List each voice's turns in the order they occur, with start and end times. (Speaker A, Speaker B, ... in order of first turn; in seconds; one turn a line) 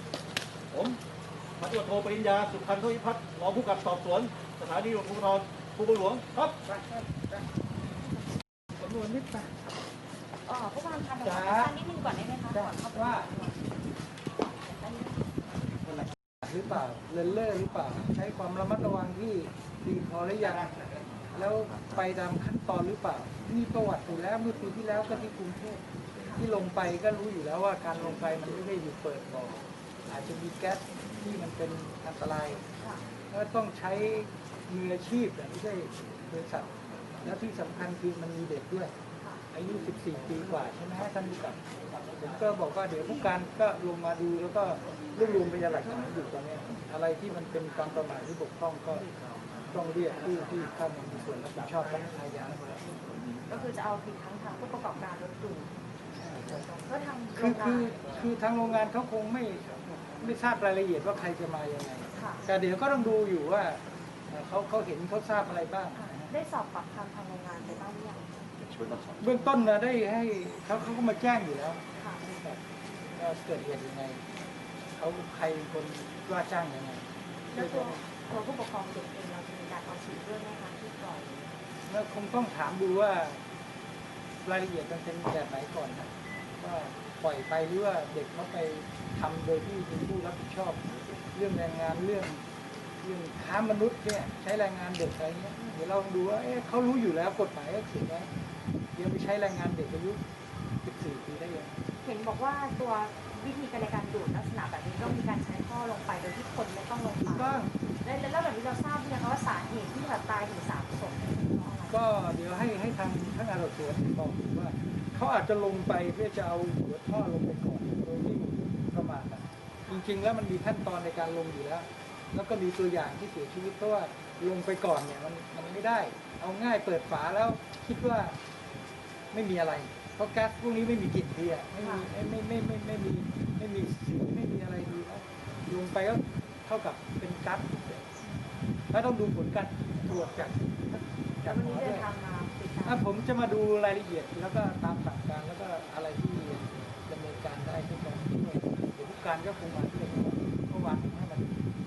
Speaker A: 0.7-1.0
Speaker A: 1.6-6.3
Speaker B: 6.3-7.4
Speaker B: 8.8-9.5
Speaker C: 10.4-13.7
Speaker B: 11.2-11.7
Speaker B: 12.5-13.3
Speaker C: 14.4-15.2
Speaker B: 15.8-20.8
Speaker B: 21.3-32.6
Speaker C: 32.8-33.0
Speaker B: 33.3-38.9
Speaker B: 39.5-49.1
Speaker B: 49.7-53.4
Speaker C: 53.5-55.7
Speaker B: 56.1-56.6
Speaker C: 56.4-58.1
Speaker B: 57.4-63.8
Speaker C: 62.1-62.5
Speaker B: 64.3-66.3
Speaker C: 66.0-68.3
Speaker B: 69.2-72.6
Speaker C: 72.0-72.2
Speaker B: 73.2-74.2
Speaker B: 75.0-78.0
Speaker C: 77.5-81.6
Speaker B: 81.9-83.4
Speaker B: 84.4-92.4
Speaker B: 93.0-98.3
Speaker B: 99.0-100.2
Speaker B: 100.8-101.7
Speaker C: 102.0-112.0
Speaker B: 107.2-107.7
Speaker B: 111.9-128.3
Speaker B: 129.3-138.0
Speaker C: 131.8-132.1
Speaker B: 138.9-142.1
Speaker C: 141.4-143.1
Speaker B: 142.8-151.6